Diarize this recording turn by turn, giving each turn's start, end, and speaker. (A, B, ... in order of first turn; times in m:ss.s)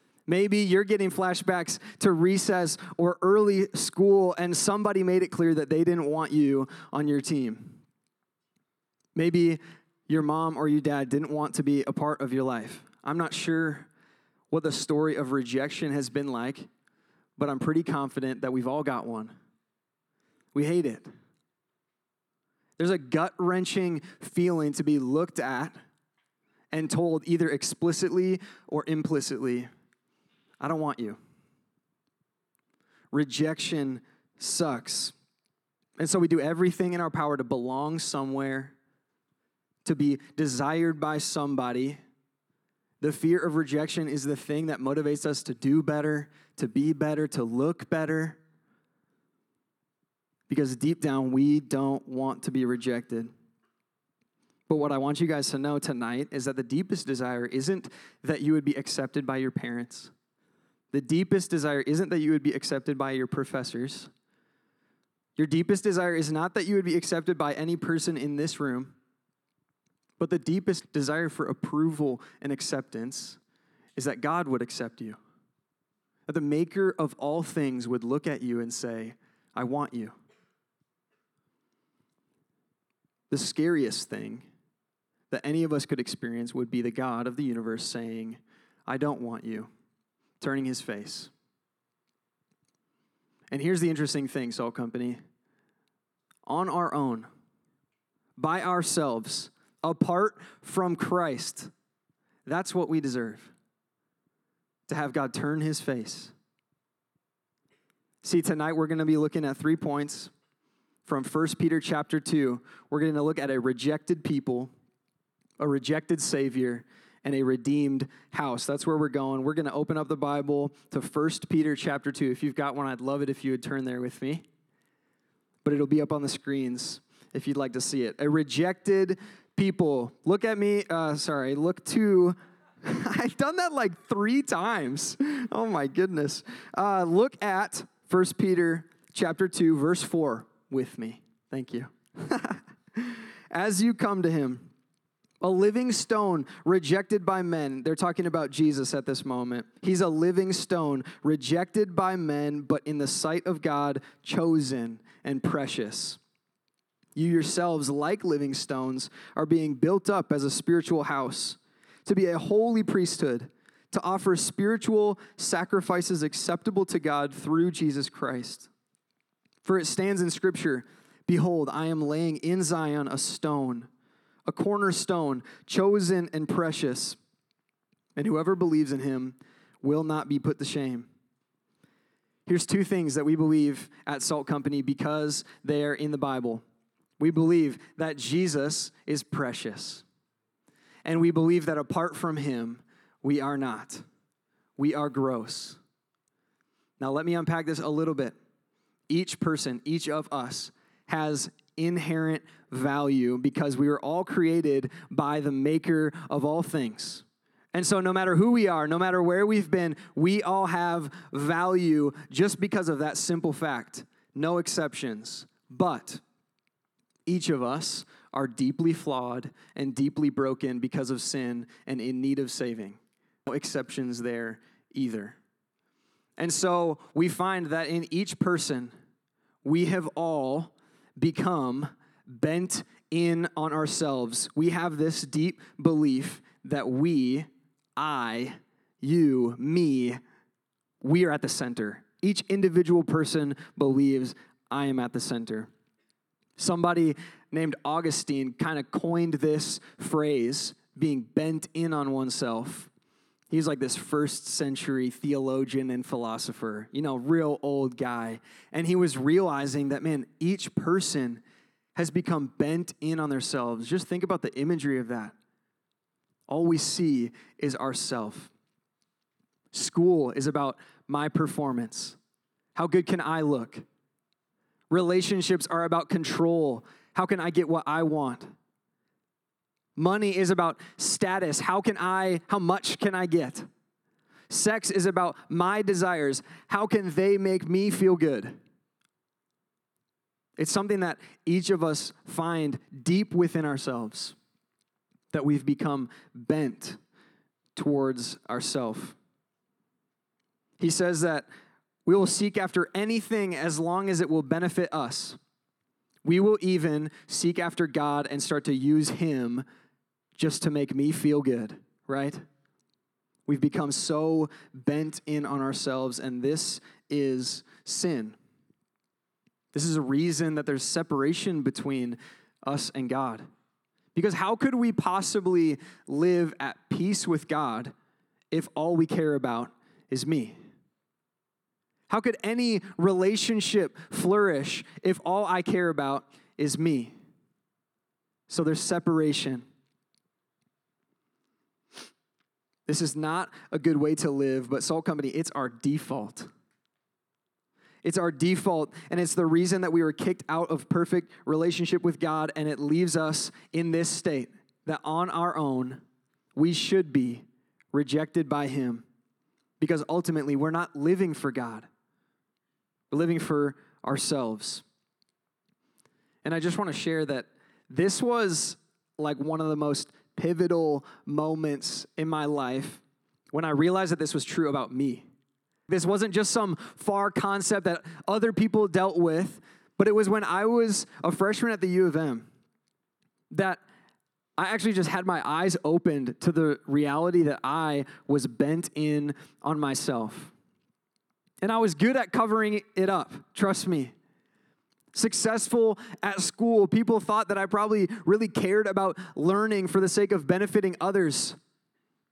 0:00.3-0:07.8 A
0:09.2-0:13.9 A
0:14.5-0:16.7 A
0:17.4-0:19.3 A
0:20.5-0:21.1 A
0:22.8-0:25.8 A
0:26.7-0:29.7 A
0:30.6-0:31.2 A
0:33.1-0:35.1 A
0:36.0-0:38.8 A
0:39.8-0:42.0 A
0:43.0-0:48.4 A
0:50.5-0:53.3 A
0:54.7-1:00.1 A
1:00.9-1:04.1 A
1:05.4-1:09.0 A
1:10.2-1:13.4 A
1:14.0-1:15.2 A
1:16.3-1:20.2 A
1:23.3-1:24.5 A
1:25.3-1:29.7 A
1:30.4-1:31.3 A
1:33.5-1:35.2 A
1:36.5-1:37.3 A
1:38.4-1:41.7 A
1:42.5-1:43.5 A
1:44.9-1:46.3 A
1:48.2-1:50.3 A
1:51.0-1:54.7 A
1:55.6-2:04.4 A
2:05.6-2:24.7 A
2:25.4-2:36.2 A
2:37.2-2:48.7 A
2:49.6-2:53.9 A
2:54.5-2:57.2 A
2:58.2-3:01.1 A
3:02.5-3:06.6 A
3:07.2-3:10.0 A
3:11.0-3:14.0 A
3:14.8-3:15.8 A
3:17.0-3:18.4 A
3:19.1-3:36.2 A
3:37.3-3:45.4 A
3:46.4-3:48.9 A
3:49.6-4:00.2 A
4:01.0-4:05.7 A
4:06.6-4:12.9 A
4:13.5-4:21.4 A
4:22.0-4:25.4 A
4:26.5-4:28.5 A
4:29.7-4:32.2 A
4:32.8-4:33.8 A
4:34.9-4:38.5 A
4:40.0-4:43.7 A
4:44.5-4:48.6 A
4:50.6-4:54.4 A
4:55.3-4:57.0 A
4:57.8-4:59.2 A
5:00.8-5:01.5 A
5:02.1-5:05.4 A
5:06.2-5:09.6 A
5:10.4-5:12.4 A
5:13.5-5:18.4 A
5:19.7-5:23.4 A
5:24.2-5:27.9 A
5:28.5-5:30.6 A
5:32.1-5:37.1 A
5:38.5-5:39.6 A
5:42.9-5:46.5 A
5:48.0-5:56.0 A
5:56.6-5:59.0 A
5:59.8-6:01.9 A
6:03.1-6:04.8 A
6:06.4-6:15.3 A
6:15.9-6:22.5 A
6:23.5-6:23.8 A
6:24.6-6:30.5 A
6:31.6-6:34.1 A
6:35.1-6:41.6 A